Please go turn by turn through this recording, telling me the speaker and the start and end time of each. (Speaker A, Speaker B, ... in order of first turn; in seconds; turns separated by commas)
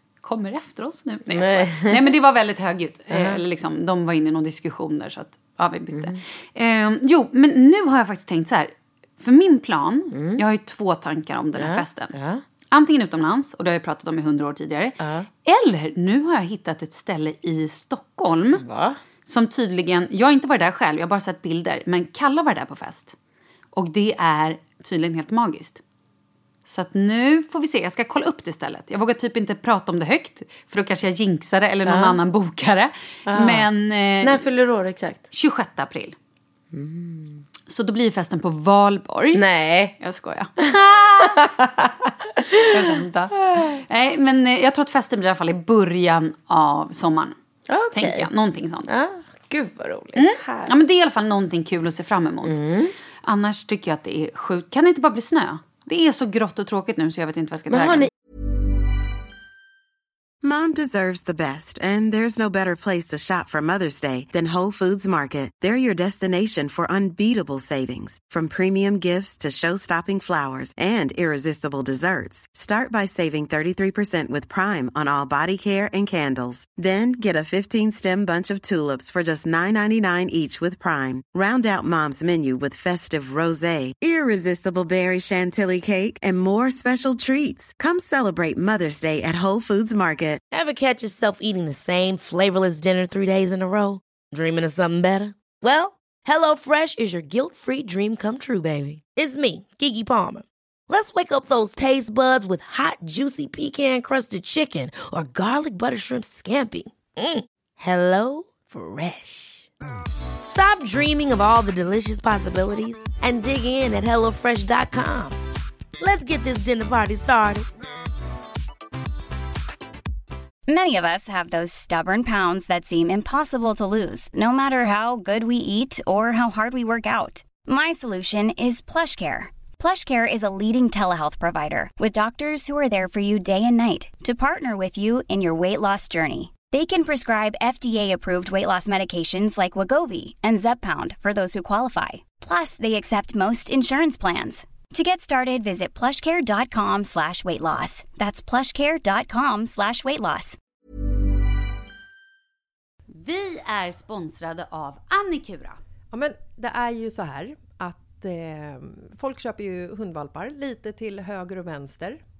Speaker A: 0.2-12.1, Speaker B: 1.4-1.9, Speaker B: 11.7-12.4, Speaker A: 12.7-18.6, Speaker B: 18.7-18.9, Speaker A: 19.2-23.1, Speaker A: 23.7-25.8, Speaker A: 26.6-34.5, Speaker B: 33.3-33.6, Speaker B: 34.2-35.1, Speaker A: 35.3-36.1, Speaker B: 36.7-37.3, Speaker A: 37.7-39.4, Speaker B: 39.4-39.9, Speaker A: 40.0-40.5, Speaker B: 40.7-41.6, Speaker A: 42.5-47.3, Speaker B: 47.7-48.2, Speaker A: 47.9-48.9, Speaker B: 48.9-50.6, Speaker A: 50.1-52.6, Speaker B: 52.5-52.9, Speaker A: 53.2-58.1, Speaker B: 57.7-58.1, Speaker C: 60.4-90.4, Speaker D: 90.5-109.7, Speaker D: 110.4-115.4, Speaker D: 116.0-117.7, Speaker E: 120.7-150.6, Speaker A: 153.1-155.8, Speaker F: 156.1-162.2